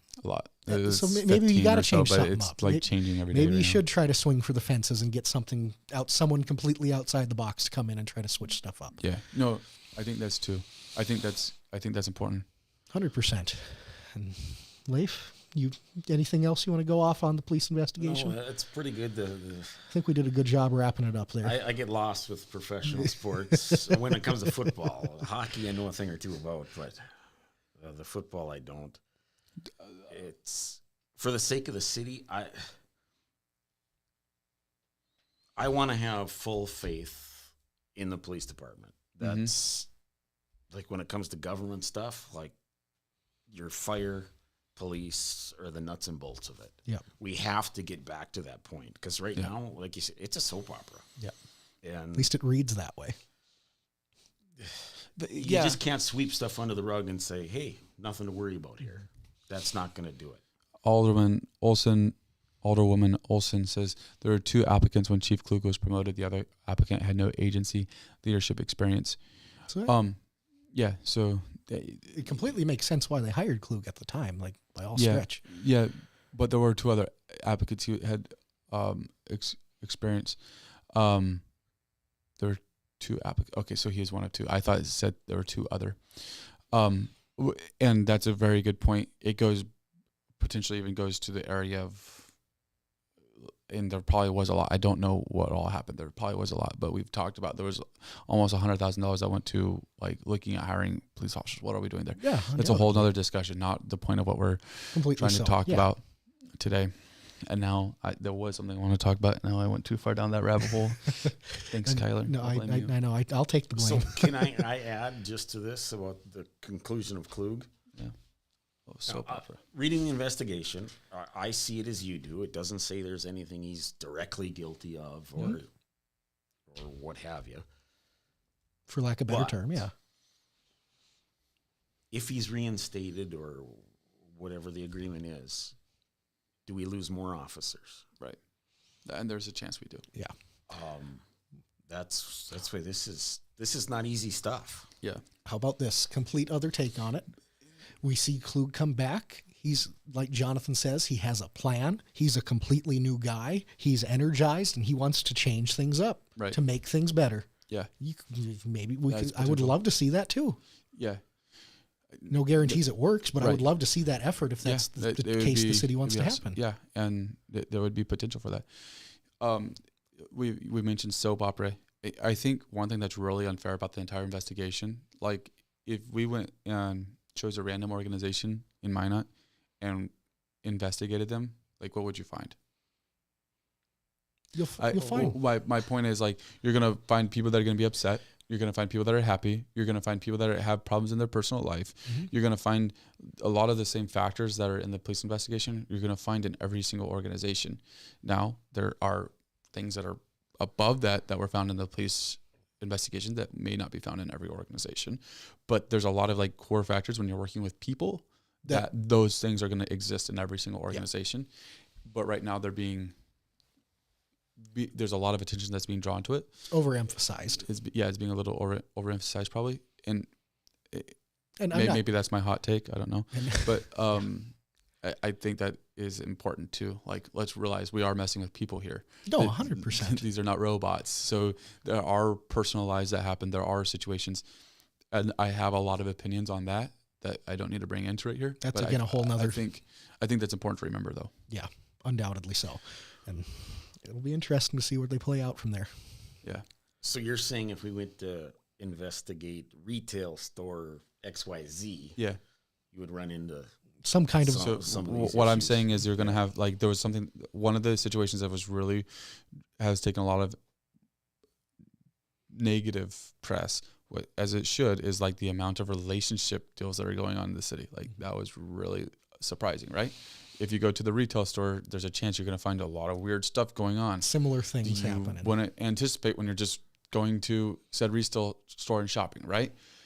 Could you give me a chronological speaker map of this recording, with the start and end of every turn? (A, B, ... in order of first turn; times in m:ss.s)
0:00.2-0:03.8 A
0:00.6-0:09.0 B
0:09.0-0:12.4 A
0:12.9-0:18.4 B
0:18.0-0:19.9 C
0:19.9-0:21.6 B
0:21.4-0:27.1 C
0:27.8-0:29.0 C
0:30.1-0:32.7 C
0:35.6-0:39.9 C
0:39.2-0:39.5 A
0:40.7-0:42.6 C
0:43.5-0:51.0 C
0:51.8-0:52.3 C
0:52.2-0:53.2 B
0:54.6-1:00.4 C
0:55.2-0:55.8 A
1:00.8-1:09.2 A
1:09.8-1:10.2 A
1:10.7-1:12.4 A
1:12.1-1:15.4 B
1:14.9-1:20.4 A
1:20.9-1:21.5 A
1:22.4-1:29.7 A
1:30.4-1:32.4 A
1:33.4-1:52.9 A
1:42.2-1:43.1 B
1:44.9-1:45.9 B
1:51.8-1:54.5 B
1:53.8-1:57.7 C
1:58.9-1:59.6 A
1:59.1-2:05.7 C
2:06.7-2:07.7 C
2:08.9-2:09.9 B
2:09.3-2:09.8 C
2:12.1-2:15.8 C
2:16.7-2:18.1 C
2:19.1-2:20.0 A
2:20.7-2:21.2 C
2:21.9-2:24.9 C
2:25.4-2:27.3 B
2:28.0-2:40.6 B
2:39.1-2:39.8 A
2:40.9-2:41.2 A
2:42.2-2:42.8 A
2:42.3-2:46.6 B
2:43.4-2:43.7 A
2:44.6-2:48.7 A
2:49.3-2:59.3 A
2:59.8-3:00.1 A
3:00.6-3:02.6 A
3:04.5-3:05.4 B
3:04.8-3:31.5 A
3:32.0-3:33.1 A
3:34.6-3:36.7 A
3:36.7-3:37.6 B
3:37.5-3:40.3 A
3:40.9-3:41.2 A
3:41.6-3:42.0 B
3:41.7-3:54.4 A
3:43.3-3:43.9 B
3:49.3-3:50.2 B
3:55.1-4:01.3 A
3:58.6-3:59.6 B
4:01.5-4:06.3 B
4:07.0-4:12.2 C
4:12.9-4:13.7 C
4:14.0-4:14.7 B
4:14.4-4:16.4 C
4:14.5-4:20.6 A
4:22.5-4:39.8 A
4:34.2-4:35.5 B